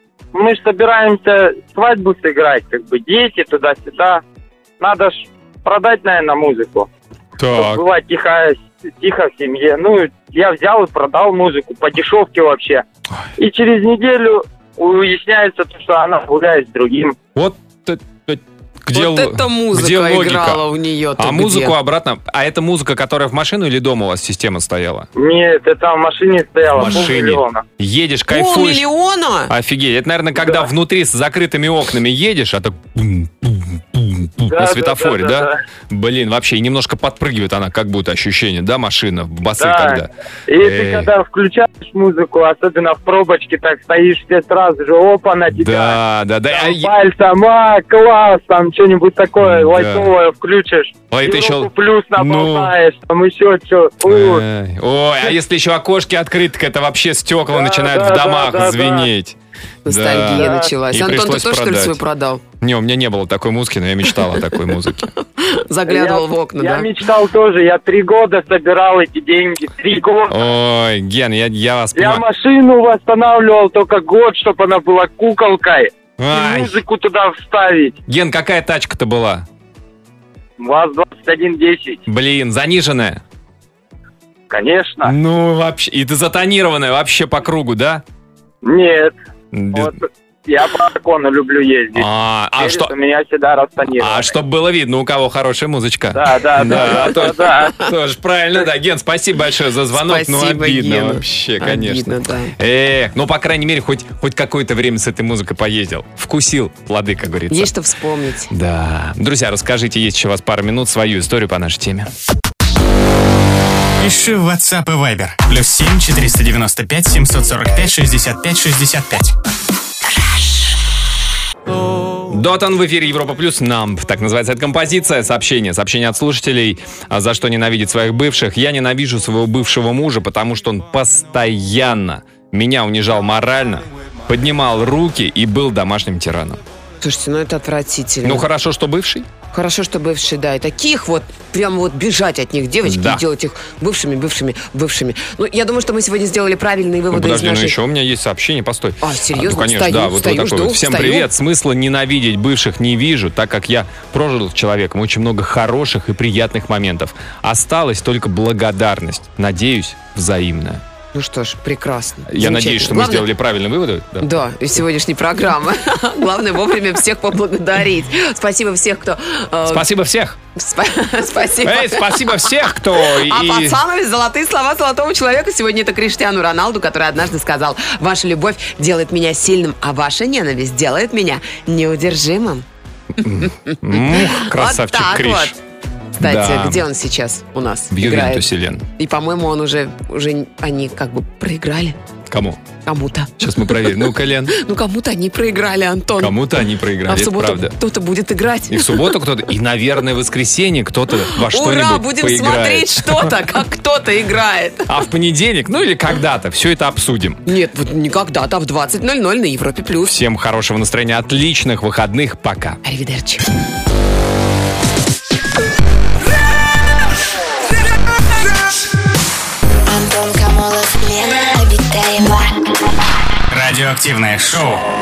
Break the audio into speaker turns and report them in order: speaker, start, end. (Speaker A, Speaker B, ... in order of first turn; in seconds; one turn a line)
Speaker A: 0.3-4.2
Speaker A: 4.8-6.9
Speaker B: 7.4-7.8
Speaker A: 7.5-12.8
Speaker A: 13.4-17.1
Speaker B: 17.3-20.6
Speaker C: 18.9-21.7
Speaker B: 21.2-25.1
Speaker A: 25.1-27.6
Speaker B: 26.7-28.8
Speaker C: 28.3-29.5
Speaker B: 29.5-41.1
Speaker A: 30.4-30.6
Speaker A: 34.5-35.5
Speaker A: 39.6-46.0
Speaker B: 45.5-46.9
Speaker A: 46.5-54.4
Speaker B: 49.4-50.1
Speaker B: 51.1-52.7
Speaker B: 54.0-62.0
Speaker A: 57.5-59.1
Speaker C: 59.8-62.4
Speaker A: 60.4-60.7
Speaker B: 62.6-65.1
Speaker C: 65.2-66.9
Speaker A: 65.9-70.4
Speaker B: 70.3-72.2
Speaker A: 71.9-78.0
Speaker B: 76.2-76.8
Speaker B: 78.1-79.5
Speaker A: 80.6-82.0
Speaker B: 82.0-83.2
Speaker A: 84.5-85.1
Speaker B: 85.0-88.0
Speaker A: 88.6-89.1
Speaker B: 89.5-90.0
Speaker A: 89.7-92.1
Speaker B: 91.9-92.9
Speaker A: 92.6-94.3
Speaker B: 93.9-107.7
Speaker A: 96.1-97.8
Speaker C: 96.7-97.1
Speaker C: 99.9-102.5
Speaker C: 107.5-108.5
Speaker B: 108.5-112.1
Speaker D: 114.0-119.3
Speaker E: 120.1-120.7
Speaker B: 122.3-136.6
Speaker C: 137.0-138.4
Speaker B: 138.2-139.3
Speaker C: 139.5-147.8
Speaker B: 142.8-143.2
Speaker B: 147.1-160.8
Speaker C: 149.0-151.3
Speaker C: 161.1-163.3
Speaker B: 162.3-164.3
Speaker C: 164.2-169.8
Speaker B: 169.7-170.4
Speaker C: 170.5-182.6
Speaker B: 171.6-173.8
Speaker B: 183.2-185.6
Speaker C: 183.3-185.5
Speaker C: 186.2-192.0
Speaker B: 186.2-186.8
Speaker B: 187.9-188.8
Speaker B: 192.3-192.6
Speaker C: 192.8-196.4
Speaker B: 193.4-194.6
Speaker B: 196.2-197.7
Speaker C: 197.0-199.2
Speaker B: 198.7-203.4
Speaker C: 201.3-204.9
Speaker B: 204.9-207.4
Speaker C: 207.4-210.2
Speaker B: 210.0-212.8
Speaker C: 212.8-213.4
Speaker E: 219.8-222.8
Speaker D: 223.5-224.8